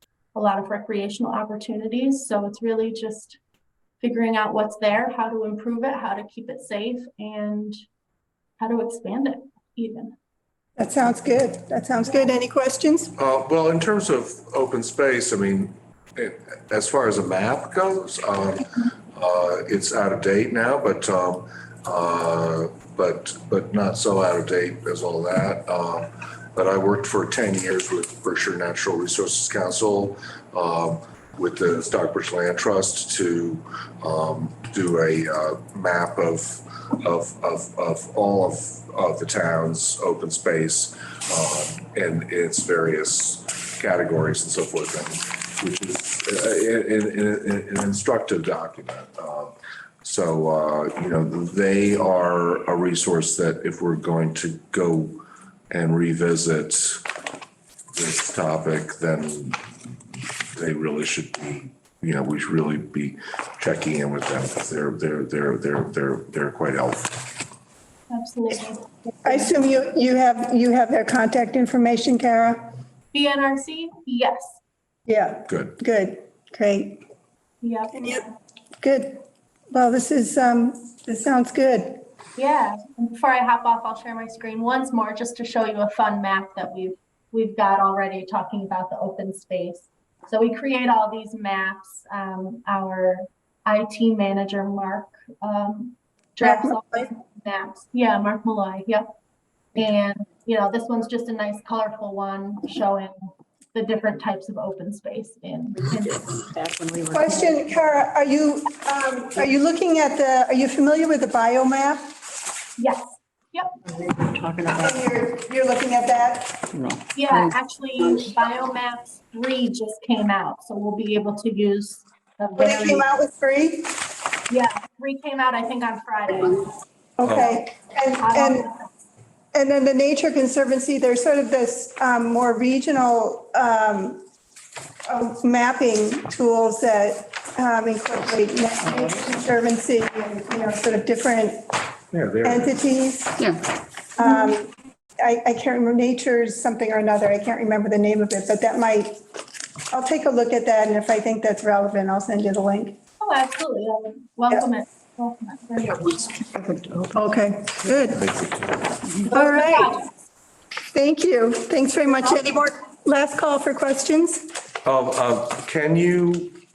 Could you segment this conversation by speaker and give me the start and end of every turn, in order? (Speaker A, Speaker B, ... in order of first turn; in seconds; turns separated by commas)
Speaker A: 0.3-3.4, Speaker A: 4.0-7.8, Speaker A: 8.6-10.2, Speaker B: 10.8-13.1, Speaker C: 13.2-57.0, Speaker C: 58.0-59.6, Speaker C: 60.5-67.4, Speaker A: 68.1-68.9, Speaker B: 69.2-72.7, Speaker A: 73.1-74.6, Speaker B: 75.1-77.0, Speaker C: 75.5-75.8, Speaker A: 77.6-78.2, Speaker B: 77.9-78.2, Speaker B: 78.8-82.0, Speaker A: 82.4-99.1, Speaker B: 96.4-97.1, Speaker A: 99.8-106.5, Speaker D: 106.5-107.6, Speaker B: 107.1-112.2, Speaker A: 112.8-113.7, Speaker D: 113.9-115.0, Speaker B: 114.8-116.6, Speaker D: 116.7-117.0, Speaker A: 117.2-123.1, Speaker B: 122.6-124.0, Speaker A: 124.5-126.8, Speaker B: 127.2-128.7, Speaker A: 128.2-128.9, Speaker B: 129.5-134.2, Speaker B: 135.1-141.7, Speaker C: 142.1-142.8, Speaker B: 142.4-143.4, Speaker B: 144.2-149.2, Speaker B: 149.9-153.0, Speaker A: 153.2-156.3, Speaker B: 157.2-158.3, Speaker C: 158.2-158.9, Speaker A: 159.3-160.1, Speaker B: 159.3-160.0, Speaker B: 160.9-164.5, Speaker C: 164.8-166.6